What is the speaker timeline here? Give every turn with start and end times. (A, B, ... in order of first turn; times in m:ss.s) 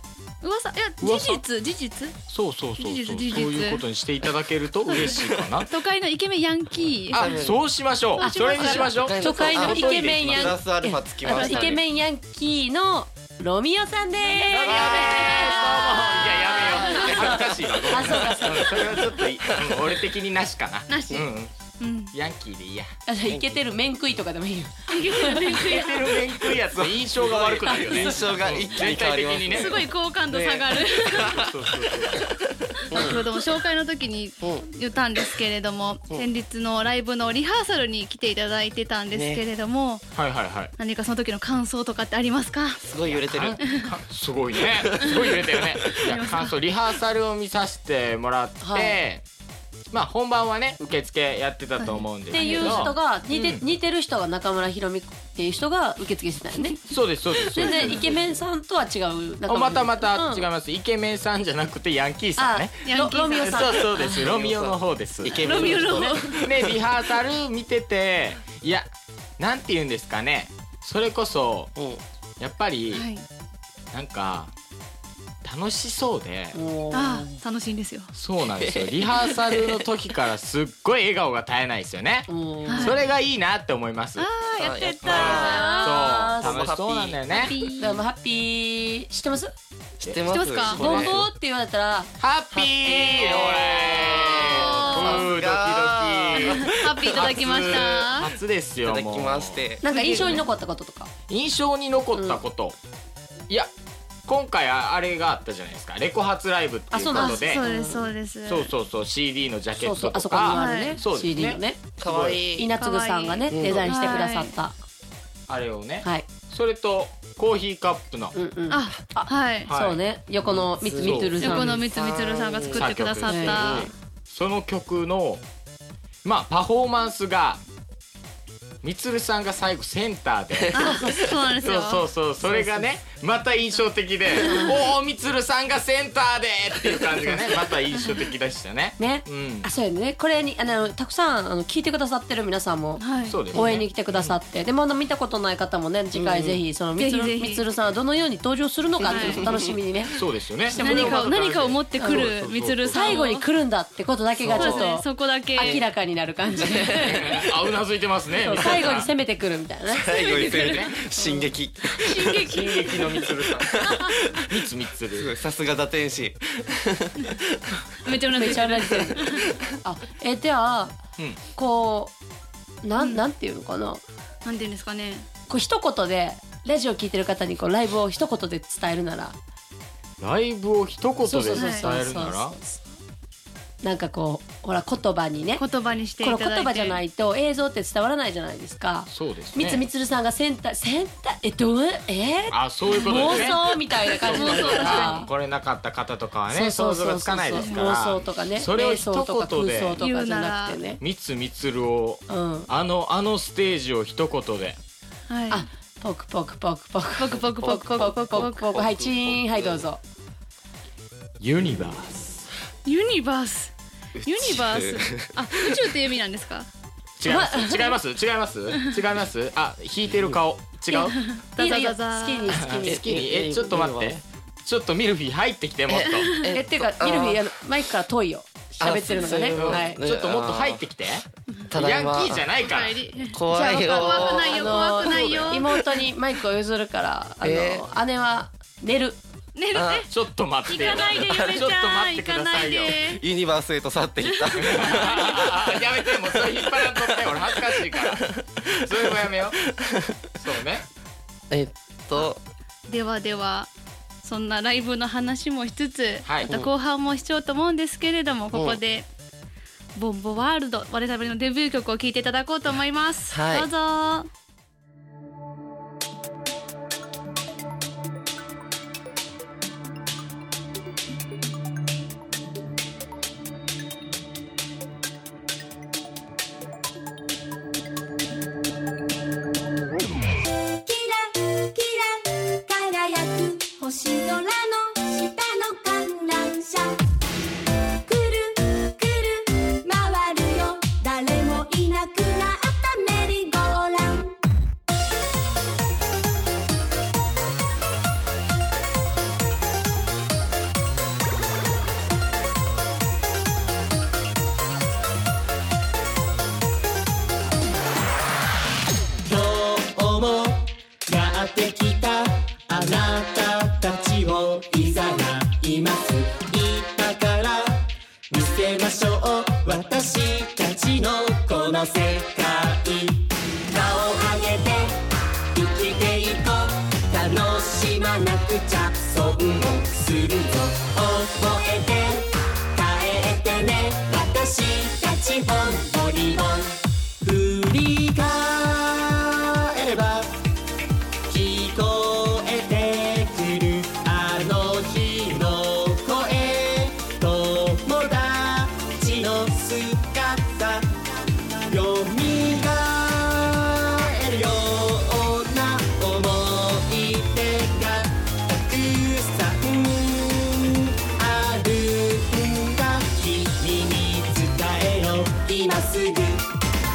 0:00.4-0:02.2 A
0:01.0-0:01.4 B
0:02.3-0:05.7 B
0:02.8-0:03.8 A
0:04.9-0:07.3 A
0:05.2-0:05.6 C
0:07.1-0:10.6 B
0:07.1-0:07.7 C
0:08.2-0:09.1 A
0:08.2-0:19.1 D
0:09.0-0:11.8 C
0:11.3-0:11.7 A
0:14.4-0:21.5 B
0:14.6-0:17.2 A
0:19.6-0:19.8 C
0:20.9-0:21.3 A
0:21.8-0:22.1 A
0:22.1-0:22.9 B
0:23.1-0:25.6 D
0:23.3-0:23.5 C
0:24.9-0:26.2 A
0:25.6-0:29.9 B
0:26.7-0:33.2 C
0:29.5-0:31.4 A
0:31.3-0:32.2 B
0:32.9-0:40.0 A
0:39.1-0:39.4 C
0:40.2-0:40.7 B
0:40.8-0:42.8 A
0:42.8-0:43.6 C
0:43.1-0:49.2 B
0:43.6-0:43.9 A
0:44.8-0:45.8 C
0:46.0-0:46.5 A
0:48.6-0:49.0 D
0:49.9-0:53.6 B
0:51.8-0:52.9 A
0:52.3-0:56.8 D
0:56.9-0:58.2 B
0:57.5-1:00.5 D
0:59.4-1:11.7 B
1:02.4-1:03.8 D
1:02.8-1:04.2 A
1:03.6-1:06.8 C
1:05.4-1:06.4 A
1:11.8-1:12.0 C
1:12.4-1:13.0 B
1:12.9-1:13.3 A
1:13.9-1:14.5 B
1:15.4-1:16.6 B
1:16.5-1:17.4 D
1:16.9-1:18.1 A
1:18.1-1:24.3 B
1:18.6-1:19.7 C
1:22.3-1:23.0 D
1:22.7-1:23.0 A
1:24.2-1:26.2 A
1:24.6-1:25.7 C
1:25.0-1:27.6 B
1:25.3-1:26.7 D
1:26.4-1:27.2 C
1:27.3-1:28.0 A
1:27.8-1:29.5 D
1:30.0-1:31.2 C
1:30.0-1:31.2 B
1:30.3-1:30.8 A
1:30.8-1:32.1 D
1:32.2-1:39.7 B
1:32.5-1:37.8 C
1:34.2-1:35.3 A
1:36.4-1:38.3 A
1:38.8-1:39.9 C
1:39.8-1:41.1 D
1:39.9-1:40.4 A
1:41.3-1:42.8 B
1:42.1-1:42.4 D
1:44.3-1:47.6 B
1:46.9-1:48.1 D
1:47.2-1:48.7 A
1:48.4-1:52.4 B
1:49.7-1:51.8 D
1:50.5-1:51.0 A
1:52.0-1:52.7 C
1:52.5-1:54.8 D
1:52.8-1:54.5 A
1:53.5-1:54.2 C
1:55.5-1:58.4 B
1:58.4-2:01.8 D
1:58.7-1:59.7 A
1:59.6-2:00.0 B
2:00.5-2:03.0 C
2:01.0-2:01.5 B
2:01.4-2:03.9 A
2:02.7-2:05.4 B
2:03.3-2:03.7 D
2:03.5-2:03.9 C
2:06.2-2:07.6 B
2:08.8-2:10.9 B
2:10.7-2:12.0 A
2:10.8-2:11.3 D
2:11.6-2:19.7 B
2:12.4-2:12.9 D
2:14.4-2:14.8 D
2:19.0-2:30.1 D
2:23.0-2:23.5 A
2:23.2-2:24.4 B
2:26.1-2:26.6 C
2:27.0-2:27.6 A
2:29.1-2:29.5 A
2:29.2-2:29.6 B
2:30.1-2:32.8 B
2:30.7-2:31.2 D
2:30.8-2:33.4 A
2:32.0-2:32.3 D
2:32.9-2:37.4 D
2:34.4-2:34.9 C
2:34.5-2:35.9 A
2:36.6-2:37.1 A
2:37.0-2:39.1 B
2:38.4-2:40.1 D
2:39.9-2:48.0 C
2:40.1-2:41.1 A
2:41.2-2:41.5 D
2:41.9-2:44.2 A
2:44.5-2:45.3 B
2:48.0-2:49.4 A
2:48.4-2:49.2 D
2:49.8-2:51.0 D
2:51.6-2:52.1 D
2:52.8-2:54.0 D
2:54.4-2:55.3 A
2:55.5-2:59.4 D
3:00.2-3:02.6 B
3:01.2-3:02.8 D
3:01.6-3:01.9 A
3:03.8-3:05.6 D
3:05.6-3:07.0 A
3:06.2-3:15.3 D
3:09.1-3:09.9 B
3:12.5-3:20.0 B
3:14.3-3:15.3 A
3:16.5-3:21.0 D
3:17.5-3:17.9 A
3:20.0-3:20.8 A
3:21.0-3:24.8 B
3:22.3-3:22.7 D
3:25.3-3:25.7 A
3:25.5-3:30.0 D
3:27.2-3:28.8 A
3:27.3-3:27.8 C
3:28.6-3:29.9 C
3:31.4-3:32.3 B
3:32.8-3:36.7 A
3:34.2-3:35.9 C
3:37.2-3:41.2 B
3:37.2-3:38.0 D
3:40.1-3:40.4 C
3:40.9-3:42.6 A
3:41.6-3:43.1 D
3:42.5-3:46.3 B
3:42.8-3:44.2 C
3:45.9-3:47.5 C
3:46.2-3:46.4 A
3:46.5-3:50.0 D
3:48.8-3:50.9 C
3:49.5-3:53.0 B
3:51.7-3:52.4 C
3:52.3-3:55.7 A
3:53.3-3:54.8 C
3:54.0-3:59.2 D
3:55.0-3:55.6 B
3:57.4-3:57.9 C
3:59.6-4:00.1 A
3:59.7-4:00.1 C
4:00.1-4:03.0 B
4:00.7-4:03.2 A
4:00.8-4:01.7 C
4:03.0-4:10.2 C
4:04.2-4:05.4 A
4:04.6-4:09.6 B
4:10.4-4:10.9 B
4:11.5-4:12.4 C
4:12.9-4:13.7 A
4:14.2-4:19.1 A
4:16.3-4:16.6 B
4:18.5-4:18.8 C
4:20.0-4:24.3 A
4:23.3-4:23.7 C
4:40.9-4:47.0 E
4:48.1-4:54.4 E
5:09.2-5:25.0 F
5:25.5-5:40.3 F
5:41.3-5:50.9 F
5:51.7-6:06.5 F